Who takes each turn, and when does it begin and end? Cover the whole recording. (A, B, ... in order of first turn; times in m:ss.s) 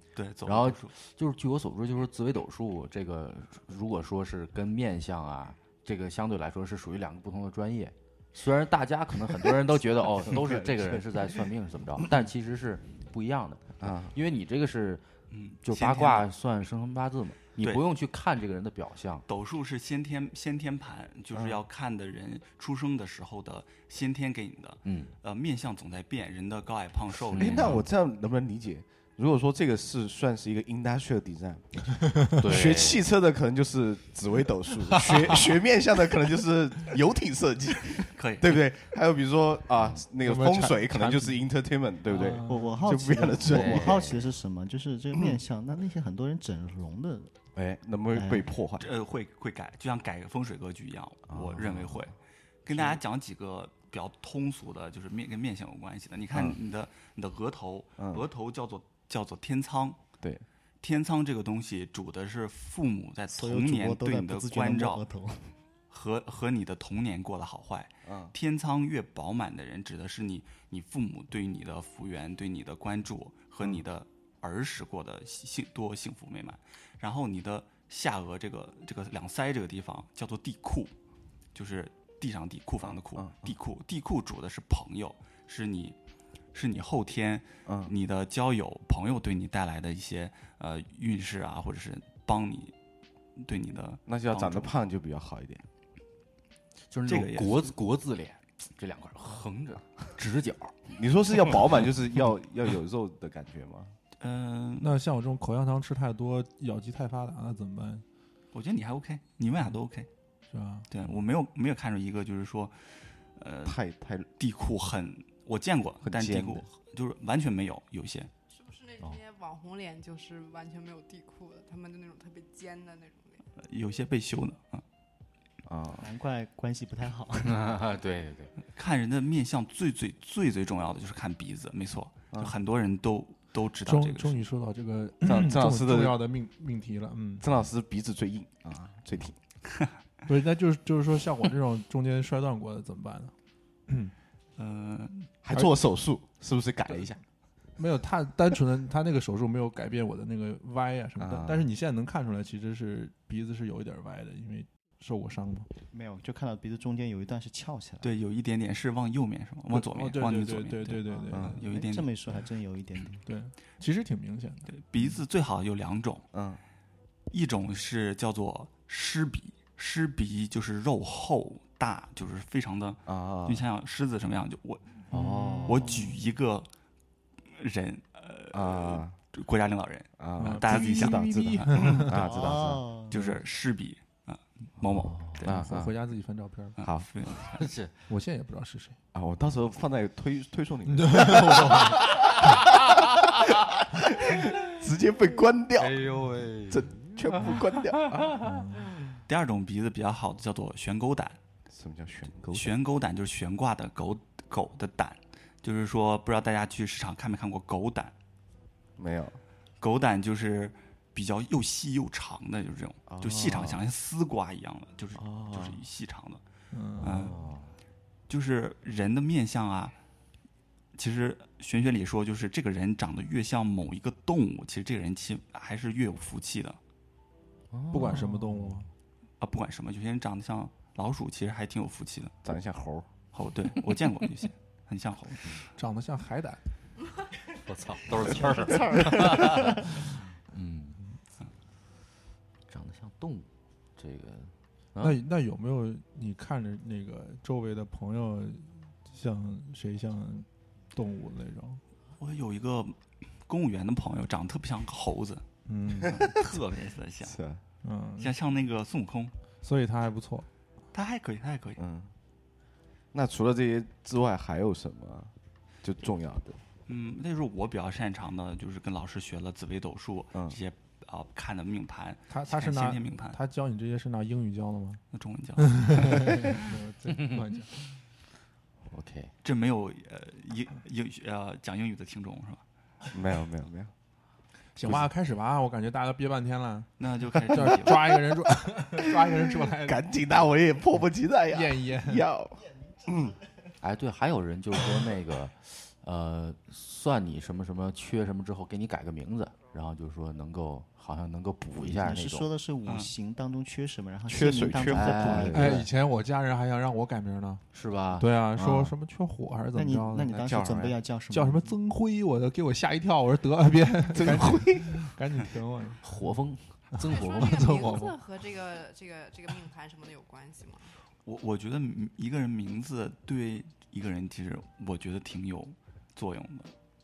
0:00.1-0:00.9 A
0:00.4-0:15.1 B
0:10.3-0:11.0 C
0:13.8-0:14.1 C
0:15.3-0:16.3 A
0:15.6-0:19.2 B
0:19.3-0:27.8 A
0:21.3-0:21.6 C
0:24.8-0:25.1 B
0:27.3-0:27.8 B
0:27.3-0:44.1 C
0:32.4-0:33.0 B
0:38.1-0:38.6 A
0:40.2-0:41.4 D
0:42.1-0:42.9 D
0:42.3-0:47.4 E
0:43.4-0:44.3 B
0:47.5-0:48.9 C
0:48.1-0:48.5 E
0:48.8-0:52.1 A
0:51.3-0:52.1 C
0:52.6-1:00.0 A
0:52.7-0:53.0 C
0:56.3-0:56.6 C
0:58.0-0:58.2 C
1:00.8-1:05.0 A
1:03.3-1:05.5 E
1:05.9-1:20.9 A
1:08.0-1:08.3 C
1:21.5-1:26.0 A
1:22.8-1:23.5 C
1:26.5-1:32.7 A
1:27.6-1:27.9 C
1:33.4-1:34.7 A
1:34.1-1:35.6 C
1:36.9-1:40.8 B
1:37.1-1:37.6 A
1:40.9-1:43.9 C
1:44.2-1:45.0 A
1:44.8-1:48.0 D
1:48.5-1:50.1 A
1:50.5-1:50.9 D
1:50.9-1:53.8 A
1:53.6-1:54.3 C
1:54.4-1:58.3 A
1:56.0-1:56.6 C
1:58.5-2:03.4 F
2:03.6-2:04.8 A
2:05.6-2:06.1 C
2:06.0-2:07.7 E
2:07.4-2:08.5 B
2:08.7-2:14.4 A
2:13.8-2:17.4 D
2:15.2-2:16.2 C
2:17.4-2:19.4 C
2:20.3-2:23.3 D
2:23.9-2:24.1 D
2:24.6-2:25.3 A
2:25.4-2:27.2 C
2:26.9-2:27.2 D
2:27.8-2:35.7 D
2:31.2-2:31.7 C
2:35.9-2:38.1 E
2:38.0-2:42.1 A
2:39.7-2:41.6 D
2:41.1-2:43.2 E
2:41.3-2:41.6 C
2:43.2-2:44.7 D
2:44.7-2:46.3 A
2:46.3-2:46.6 C
2:47.3-2:55.0 A
2:53.1-2:53.6 C
2:55.1-2:56.0 B
2:55.1-2:56.1 E
2:55.7-2:56.7 A
2:57.4-3:02.0 A
2:58.5-2:59.1 C
3:00.2-3:02.8 C
3:00.4-3:02.2 D
3:02.1-3:03.1 E
3:03.1-3:05.6 A
3:04.8-3:05.4 B
3:05.4-3:06.8 D
3:05.4-3:05.9 C
3:06.8-3:07.7 A
3:06.8-3:07.1 C
3:07.6-3:07.9 B
3:08.1-3:09.0 D
3:09.1-3:18.4 C
3:10.9-3:12.1 D
3:15.8-3:18.8 B
3:18.4-3:18.9 D
3:19.3-3:21.4 A
3:21.7-3:22.7 C
3:22.5-3:28.1 A
3:29.0-3:29.4 C
3:29.8-3:36.4 A
3:33.1-3:33.8 C
3:35.2-3:35.8 C
3:36.7-3:37.3 D
3:37.0-3:37.4 A
3:37.0-3:37.7 B
3:38.3-3:40.0 A
3:40.9-3:46.8 A
3:47.7-3:48.8 B
3:47.9-3:48.9 D
3:49.4-3:52.3 A
3:52.4-3:53.1 C
3:53.3-3:55.6 A
3:55.8-3:56.6 D
3:57.6-4:01.0 B
4:02.7-4:05.2 B
4:05.0-4:11.8 D
4:12.2-4:15.4 A
4:15.7-4:16.2 D
4:16.1-4:17.4 A
4:17.2-4:17.6 C
4:17.8-4:18.3 D
4:18.2-4:19.3 A
4:19.6-4:20.5 D
4:20.9-4:21.8 A
4:21.8-4:22.1 C
4:23.1-4:25.3 C
4:25.8-4:26.6 C
4:26.9-4:33.4 A
4:32.3-4:35.0 D
4:35.1-4:36.7 A
4:35.6-4:37.7 D
4:37.1-4:37.4 B
4:38.9-4:39.3 B
4:39.4-4:42.6 A
4:43.1-4:43.9 C
4:44.8-4:50.0 D
4:47.0-4:48.2 A
4:49.7-4:53.4 C
4:51.5-4:52.2 D
4:53.8-5:02.5 B
5:01.8-5:05.8 E
5:02.8-5:03.1 A
5:04.2-5:05.8 C
5:04.9-5:05.9 B
5:05.5-5:07.6 D
5:07.7-5:08.9 B
5:08.2-5:10.3 D
5:09.7-5:11.7 E
5:10.3-5:11.0 C
5:11.3-5:16.2 D
5:14.1-5:15.1 C
5:16.0-5:17.7 B
5:17.0-5:18.2 D
5:17.1-5:20.9 F
5:21.2-5:26.7 A